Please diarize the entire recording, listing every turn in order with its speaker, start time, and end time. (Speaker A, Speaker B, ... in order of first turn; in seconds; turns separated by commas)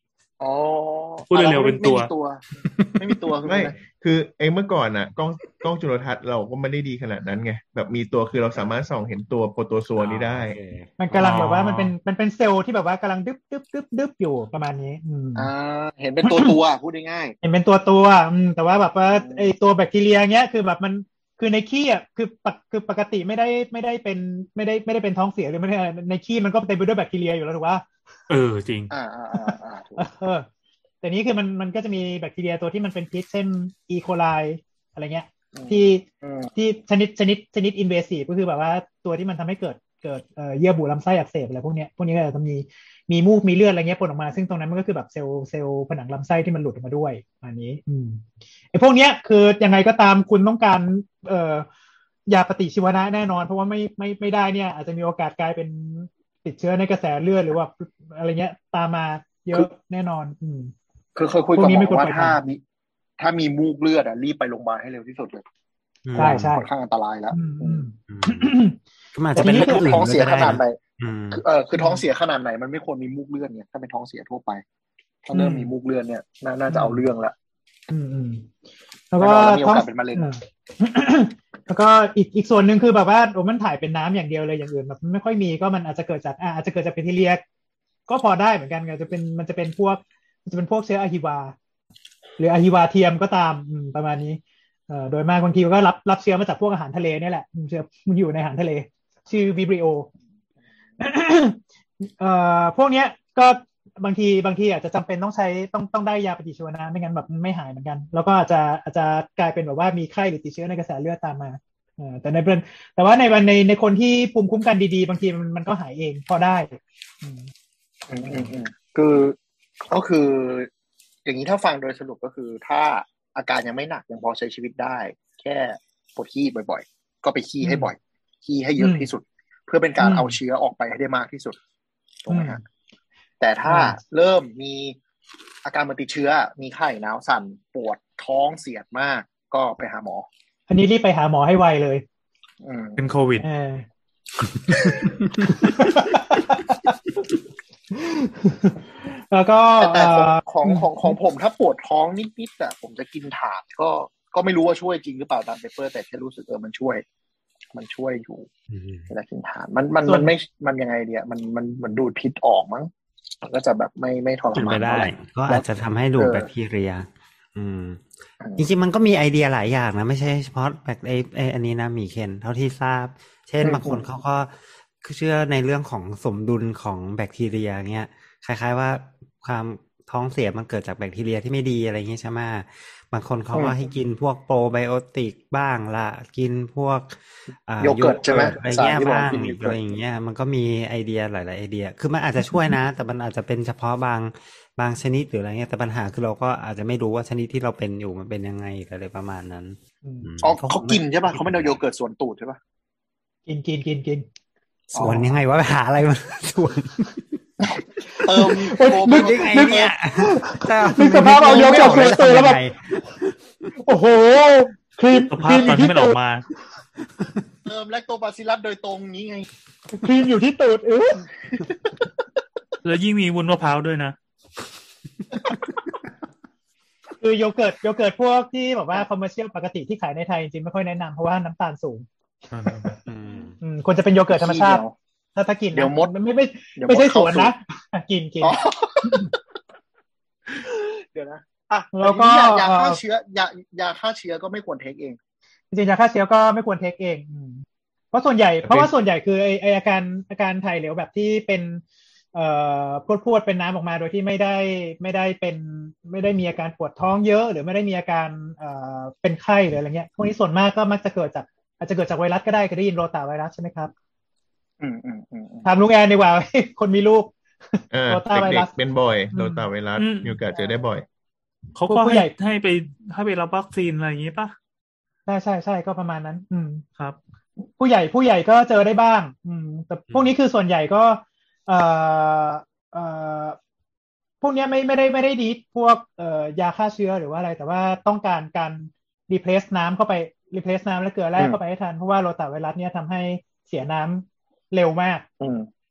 Speaker A: 0.4-2.4, Speaker B: 1.3-2.1, Speaker C: 2.7-3.0, Speaker A: 3.0-3.8, Speaker D: 3.5-10.6, Speaker C: 10.0-11.9, Speaker E: 11.0-15.5, Speaker B: 11.2-11.5, Speaker A: 15.4-17.4, Speaker E: 16.2-16.5, Speaker E: 17.4-27.9, Speaker A: 19.1-19.5, Speaker B: 28.3-28.9, Speaker A: 28.9-30.0, Speaker E: 29.3-30.5, Speaker E: 31.0-36.0, Speaker A: 35.5-36.5, Speaker E: 36.6-51.7, Speaker E: 52.3-60.7, Speaker A: 61.2-62.6, Speaker E: 61.5-62.4, Speaker A: 63.2-65.4, Speaker C: 66.0-66.5, Speaker A: 66.2-67.9, Speaker E: 66.2-66.7, Speaker E: 67.3-68.8, Speaker C: 68.1-68.6, Speaker C: 69.2-71.4, Speaker E: 69.3-70.1, Speaker A: 69.4-70.8, Speaker A: 71.3-74.6, Speaker E: 71.7-72.0, Speaker A: 75.2-77.3, Speaker E: 75.3-75.7, Speaker E: 76.7-77.0, Speaker E: 77.9-78.5, Speaker E: 79.1-87.4, Speaker A: 79.2-80.3, Speaker E: 88.1-91.5, Speaker E: 92.4-100.1, Speaker E: 101.0-117.5, Speaker A: 118.1-120.7, Speaker A: 121.2-131.6, Speaker E: 127.6-127.9, Speaker E: 128.8-129.1, Speaker E: 130.0-130.4, Speaker A: 132.2-132.6, Speaker E: 132.3-132.6, Speaker A: 133.4-135.0, Speaker E: 133.7-134.0, Speaker A: 135.7-140.3, Speaker E: 140.7-142.1, Speaker A: 142.6-143.0, Speaker B: 143.0-143.4, Speaker E: 143.4-143.9, Speaker C: 144.5-145.9, Speaker E: 145.4-146.8, Speaker E: 147.9-151.2, Speaker A: 149.8-157.0, Speaker A: 157.7-158.5, Speaker C: 158.7-159.1, Speaker A: 159.1-162.9, Speaker E: 160.1-160.3, Speaker A: 163.4-166.5, Speaker C: 164.5-168.1, Speaker A: 168.4-168.7, Speaker C: 168.6-201.8, Speaker A: 173.6-174.0, Speaker A: 187.8-189.9, Speaker A: 200.4-202.6, Speaker E: 203.5-204.3, Speaker A: 204.9-205.3, Speaker C: 204.9-207.4, Speaker A: 207.6-209.9, Speaker E: 208.2-212.6, Speaker C: 209.0-213.7, Speaker A: 211.4-212.2, Speaker E: 213.8-216.2, Speaker B: 215.3-216.5, Speaker A: 217.7-219.5, Speaker E: 219.9-221.3, Speaker B: 222.8-224.2, Speaker E: 227.2-233.0, Speaker C: 233.1-233.6, Speaker E: 233.6-234.8, Speaker A: 234.3-234.9, Speaker E: 235.4-239.3, Speaker A: 235.7-236.1, Speaker A: 236.8-237.5, Speaker A: 238.4-239.4, Speaker A: 240.5-245.2, Speaker E: 241.9-243.0, Speaker E: 245.7-251.8, Speaker D: 248.7-248.9, Speaker E: 252.3-263.9, Speaker A: 264.8-265.7, Speaker E: 265.6-268.7, Speaker D: 267.9-271.1, Speaker E: 269.3-269.7, Speaker B: 270.0-270.4, Speaker B: 271.8-274.5, Speaker E: 271.9-272.3, Speaker E: 275.3-276.9, Speaker E: 277.8-283.6, Speaker E: 284.4-295.2, Speaker A: 295.4-295.7